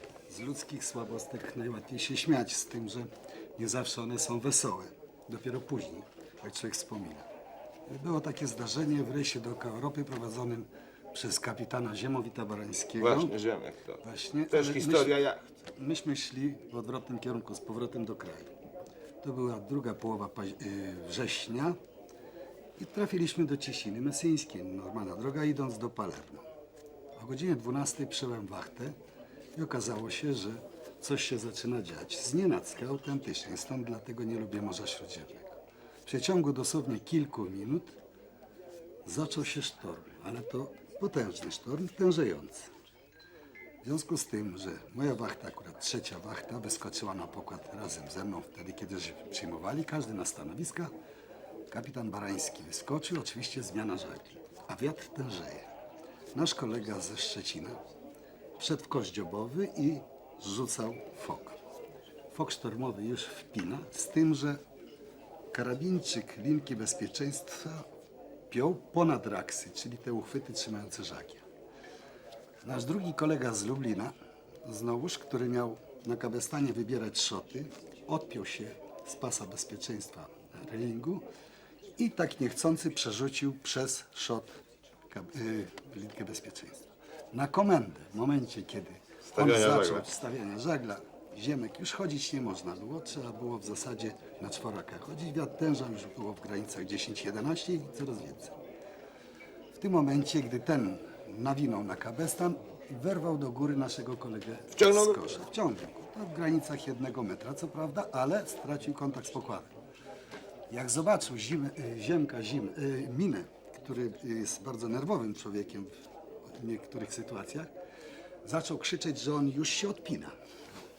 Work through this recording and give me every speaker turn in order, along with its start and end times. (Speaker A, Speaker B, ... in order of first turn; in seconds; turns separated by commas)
Speaker A: 0.3-7.3, Speaker A: 7.9-13.3, Speaker B: 13.0-15.5, Speaker A: 14.0-15.2, Speaker A: 15.8-18.5, Speaker A: 19.2-21.8, Speaker A: 22.8-26.5, Speaker A: 27.2-29.0, Speaker A: 29.6-38.0, Speaker A: 39.1-42.7, Speaker A: 43.8-50.9, Speaker A: 51.7-55.7, Speaker A: 56.3-57.8, Speaker A: 58.6-61.6, Speaker A: 62.3-64.6, Speaker A: 65.5-67.8, Speaker A: 68.5-71.4, Speaker A: 72.6-74.1, Speaker A: 74.7-81.3, Speaker A: 82.0-84.5, Speaker A: 85.1-98.5, Speaker B: 89.2-90.1, Speaker A: 99.7-109.7, Speaker B: 104.8-105.2, Speaker A: 110.7-115.9, Speaker A: 116.5-117.7, Speaker A: 118.4-120.3